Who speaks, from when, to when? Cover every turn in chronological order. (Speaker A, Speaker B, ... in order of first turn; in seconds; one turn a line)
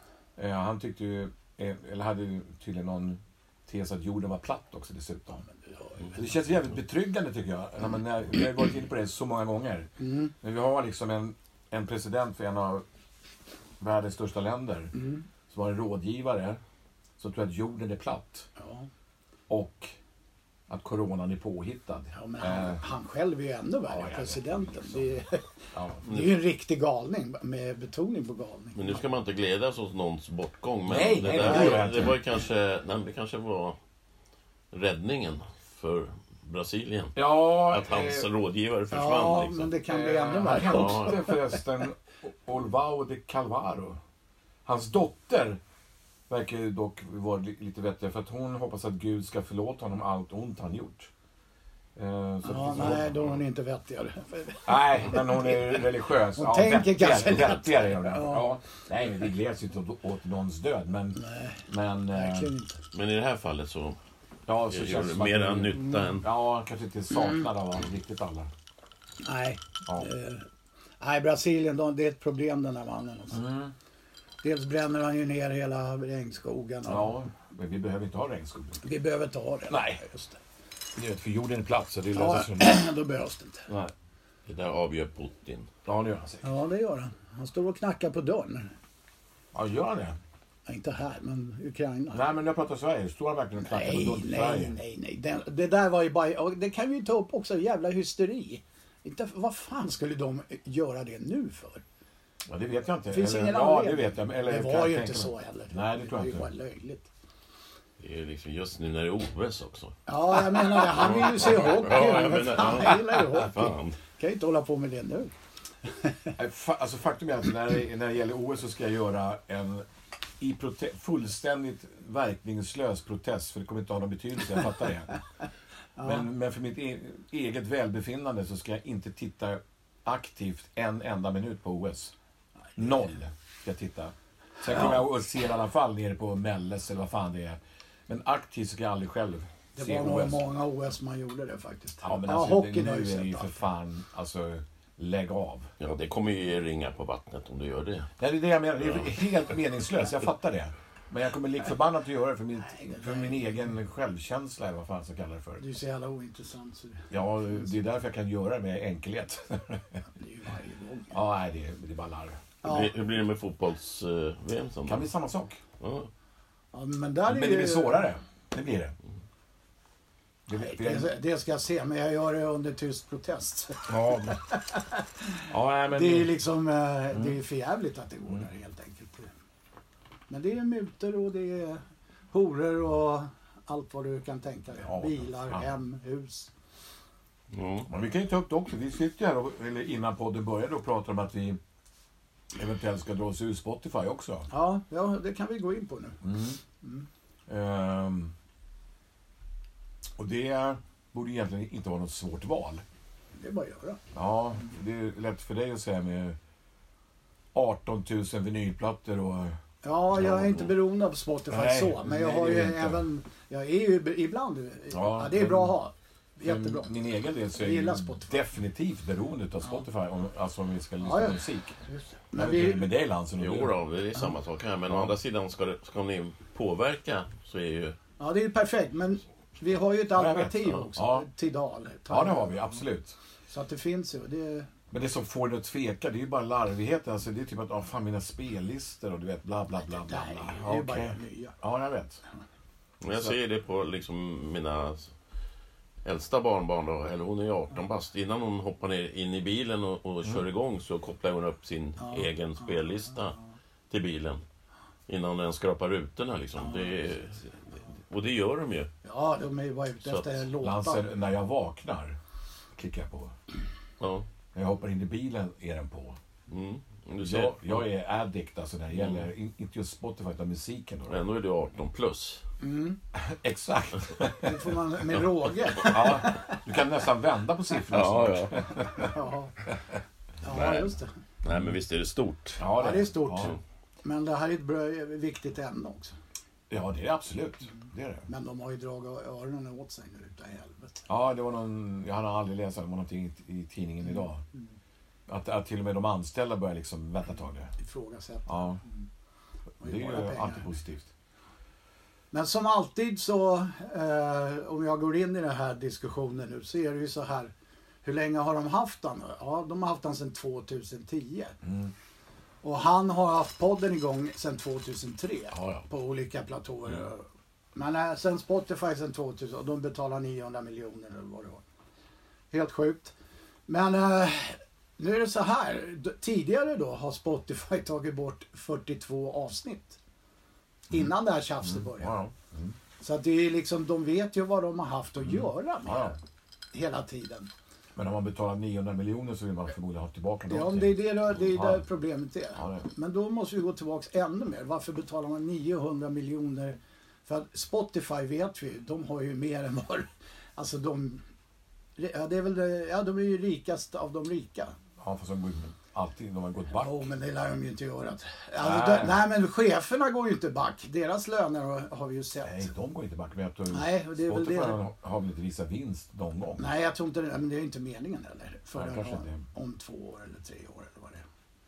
Speaker A: 0.4-5.4
Speaker B: 5.6-6.2
Speaker A: 6.1-12.8
Speaker B: 10.0-10.3
Speaker A: 13.8-14.9
Speaker B: 14.9-15.2
Speaker A: 15.5-16.6
Speaker A: 17.2-18.5
Speaker B: 18.6-18.9
Speaker A: 19.5-19.9
Speaker A: 20.7-22.8
Speaker B: 22.1-25.5
Speaker A: 23.9-25.1
Speaker A: 25.7-26.0
Speaker B: 26.0-29.0
Speaker C: 26.0-26.4
Speaker C: 28.7-33.8
Speaker A: 30.9-32.2
Speaker B: 31.4-31.9
Speaker C: 34.7-39.7
Speaker A: 37.1-38.3
Speaker B: 38.9-41.6
Speaker A: 39.9-44.0
Speaker C: 40.5-41.2
Speaker A: 44.6-45.6
Speaker A: 46.3-51.1
Speaker A: 52.0-53.3
Speaker B: 52.4-58.5
Speaker A: 54.7-62.5
Speaker B: 61.1-62.8
Speaker C: 62.9-64.0
Speaker A: 64.5-68.5
Speaker C: 64.7-66.2
Speaker B: 67.1-67.4
Speaker B: 69.2-70.5
Speaker B: 71.0-73.4
Speaker A: 73.3-73.7
Speaker B: 74.4-77.2
Speaker A: 76.9-78.8
Speaker B: 78.8-80.4
Speaker A: 79.7-80.0
Speaker A: 80.9-82.8
Speaker B: 82.1-83.7
Speaker A: 83.7-83.9
Speaker C: 84.5-85.7
Speaker A: 85.8-86.5
Speaker B: 86.4-88.7
Speaker A: 89.5-90.2
Speaker B: 90.7-92.2
Speaker A: 92.1-94.7
Speaker B: 93.6-101.8
Speaker A: 102.5-106.5
Speaker B: 103.1-107.1
Speaker C: 108.0-114.0
Speaker B: 110.1-115.3
Speaker B: 115.9-116.3
Speaker A: 116.4-119.8
Speaker A: 120.4-125.1
Speaker B: 126.0-126.3
Speaker A: 126.0-132.1
Speaker A: 132.8-140.4
Speaker B: 139.7-143.6
Speaker A: 142.0-145.7
Speaker C: 145.8-148.1
Speaker A: 148.2-155.6
Speaker C: 148.8-149.2
Speaker B: 152.7-153.4
Speaker B: 155.6-157.6
Speaker A: 157.1-160.0
Speaker B: 160.2-161.2
Speaker A: 161.1-162.4
Speaker B: 162.6-162.9
Speaker C: 162.6-165.1
Speaker A: 164.8-165.6
Speaker C: 165.8-166.1
Speaker B: 166.7-168.1
Speaker A: 167.3-168.9
Speaker A: 170.5-171.1
Speaker B: 170.6-179.3
Speaker A: 173.9-174.4
Speaker A: 175.5-176.3
Speaker A: 177.1-177.4
Speaker B: 180.3-186.5
Speaker A: 184.8-185.7
Speaker C: 187.5-187.9
Speaker A: 187.9-191.6
Speaker A: 192.5-194.5
Speaker B: 194.5-196.2
Speaker A: 196.2-196.6
Speaker B: 196.8-197.1
Speaker A: 197.5-198.3
Speaker A: 200.2-202.8
Speaker B: 203.3-204.0
Speaker A: 204.1-206.4
Speaker A: 207.5-209.6
Speaker B: 209.8-216.9
Speaker A: 210.2-210.6
Speaker A: 211.5-213.0
Speaker A: 214.9-215.7
Speaker A: 216.4-221.8
Speaker B: 217.5-218.3
Speaker B: 221.0-222.9
Speaker A: 222.3-223.7
Speaker C: 223.4-228.0
Speaker A: 224.9-225.1
Speaker B: 228.2-232.8
Speaker A: 230.1-231.3
Speaker A: 232.1-233.2
Speaker B: 233.5-234.7
Speaker A: 234.9-242.2
Speaker B: 239.8-241.6
Speaker C: 243.0-245.1
Speaker C: 246.0-253.3
Speaker B: 252.0-252.7
Speaker C: 253.9-254.4
Speaker C: 255.1-258.9
Speaker B: 256.6-257.0
Speaker B: 259.0-261.1
Speaker C: 260.0-260.4
Speaker A: 260.6-262.2
Speaker A: 262.8-263.3
Speaker C: 264.0-264.3
Speaker A: 264.5-266.2
Speaker C: 266.5-267.9
Speaker A: 267.2-271.2
Speaker C: 268.9-269.3
Speaker C: 271.1-272.4
Speaker B: 272.6-273.0
Speaker A: 273.1-274.7
Speaker B: 274.4-276.6
Speaker C: 275.8-276.2
Speaker A: 275.8-279.1
Speaker C: 277.9-278.7
Speaker B: 278.8-279.6
Speaker B: 280.4-281.1
Speaker C: 280.5-282.6
Speaker A: 282.6-283.6
Speaker B: 282.7-286.1
Speaker A: 286.7-288.2
Speaker B: 288.3-291.1
Speaker A: 291.1-294.4
Speaker A: 295.3-297.7
Speaker B: 297.8-299.1
Speaker A: 298.5-298.8
Speaker B: 299.8-300.7
Speaker A: 299.8-301.1
Speaker B: 302.3-307.5
Speaker B: 308.0-311.6
Speaker A: 311.6-311.9
Speaker B: 312.6-321.6
Speaker A: 315.5-315.8
Speaker B: 322.5-323.1
Speaker B: 323.7-330.0
Speaker B: 330.9-332.1
Speaker A: 331.6-332.8
Speaker B: 333.0-336.2
Speaker A: 335.2-336.1
Speaker B: 336.7-337.5
Speaker A: 337.9-341.8
Speaker B: 340.5-351.2
Speaker A: 342.5-342.9
Speaker B: 352.0-354.8
Speaker A: 355.0-357.1
Speaker B: 356.7-362.7
Speaker A: 358.6-359.2
Speaker A: 362.4-366.7
Speaker B: 363.7-364.8
Speaker B: 366.6-371.2
Speaker A: 368.7-369.4